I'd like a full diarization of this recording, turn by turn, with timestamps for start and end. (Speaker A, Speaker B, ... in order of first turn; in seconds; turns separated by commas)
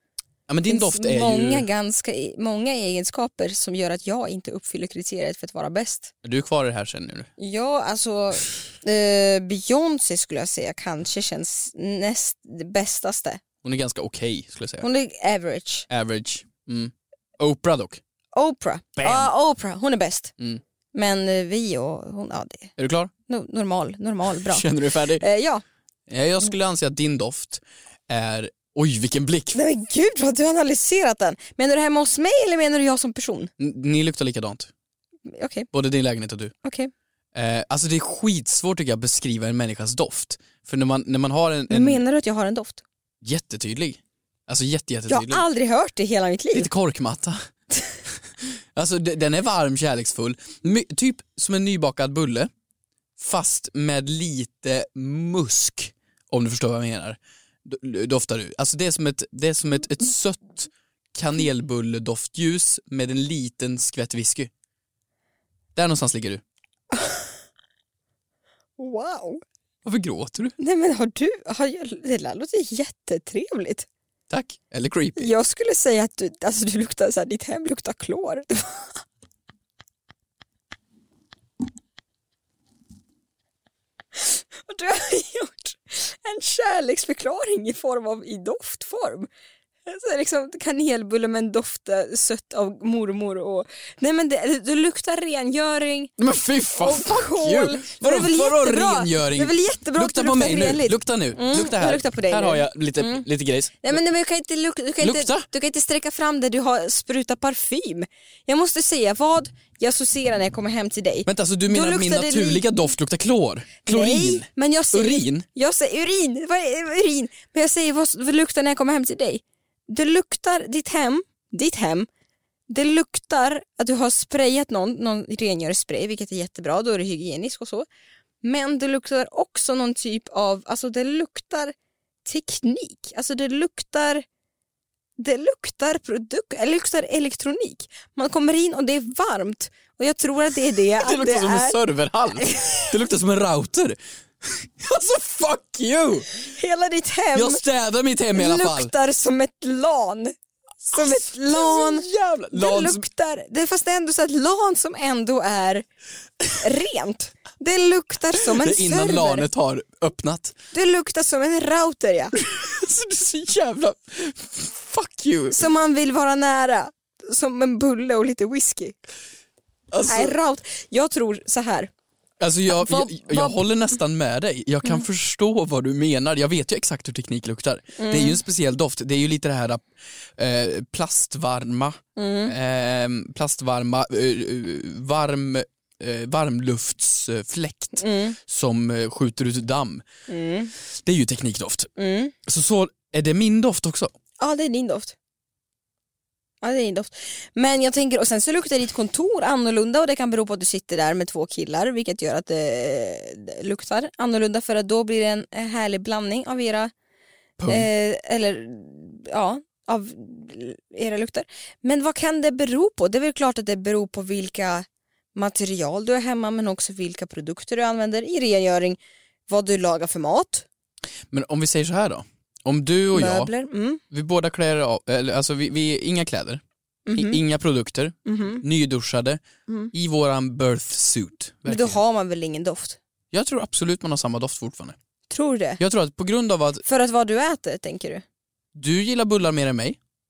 Speaker A: 0.5-1.6, Speaker B: 0.7-6.1, Speaker A: 6.2-7.3, Speaker B: 7.4-13.4, Speaker A: 13.6-14.9, Speaker B: 14.8-15.9, Speaker A: 15.9-18.0, Speaker B: 18.3-20.3, Speaker A: 19.0-19.3, Speaker B: 20.9-22.7, Speaker A: 22.8-23.1, Speaker B: 23.3-24.6, Speaker A: 24.4-25.2, Speaker B: 25.2-25.6, Speaker A: 26.1-29.6, Speaker B: 29.5-33.5, Speaker A: 33.6-34.7, Speaker B: 35.3-35.7, Speaker A: 35.7-36.5, Speaker B: 36.6-36.9, Speaker A: 37.3-42.0, Speaker B: 41.7-42.8, Speaker A: 43.2-45.4, Speaker B: 45.1-46.7, Speaker A: 46.5-47.4, Speaker A: 48.7-52.5, Speaker A: 53.2-64.5, Speaker A: 65.7-66.4, Speaker B: 66.9-67.3, Speaker B: 68.8-69.4, Speaker A: 69.8-70.5, Speaker B: 70.6-73.9, Speaker A: 74.3-75.3, Speaker B: 75.2-78.9, Speaker B: 84.2-89.3, Speaker B: 89.8-96.1, Speaker A: 96.2-104.0, Speaker B: 96.7-103.2, Speaker B: 103.8-112.6, Speaker A: 105.0-105.5, Speaker A: 111.2-115.5, Speaker B: 113.8-122.1, Speaker B: 122.7-127.8, Speaker B: 128.4-131.7, Speaker B: 132.2-134.2, Speaker B: 135.2-141.8, Speaker A: 141.0-146.3, Speaker B: 142.3-142.9, Speaker B: 146.4-147.6, Speaker A: 147.3-148.9, Speaker B: 148.3-150.3, Speaker A: 150.9-153.0, Speaker B: 150.9-155.8, Speaker B: 156.6-159.4, Speaker A: 158.3-160.6, Speaker B: 160.7-162.3, Speaker A: 162.3-165.6, Speaker B: 165.5-168.9, Speaker A: 169.9-170.3, Speaker B: 170.1-171.9, Speaker A: 172.4-179.8, Speaker B: 172.7-173.7, Speaker B: 178.0-178.4, Speaker A: 180.4-190.0, Speaker B: 182.2-182.5, Speaker B: 188.0-188.4, Speaker B: 190.3-190.7, Speaker A: 190.9-191.9, Speaker B: 192.0-192.3, Speaker A: 192.4-194.1, Speaker B: 194.4-195.1, Speaker B: 196.6-206.9, Speaker A: 207.6-207.9, Speaker B: 207.7-220.7, Speaker A: 221.3-223.5, Speaker B: 223.1-224.0, Speaker A: 224.1-229.4, Speaker B: 227.1-227.4, Speaker B: 228.2-228.6, Speaker B: 229.7-229.9, Speaker A: 229.9-232.0, Speaker B: 231.7-233.0, Speaker A: 233.3-234.9, Speaker B: 235.3-235.8, Speaker A: 235.8-236.8, Speaker B: 236.8-238.2, Speaker A: 238.7-240.0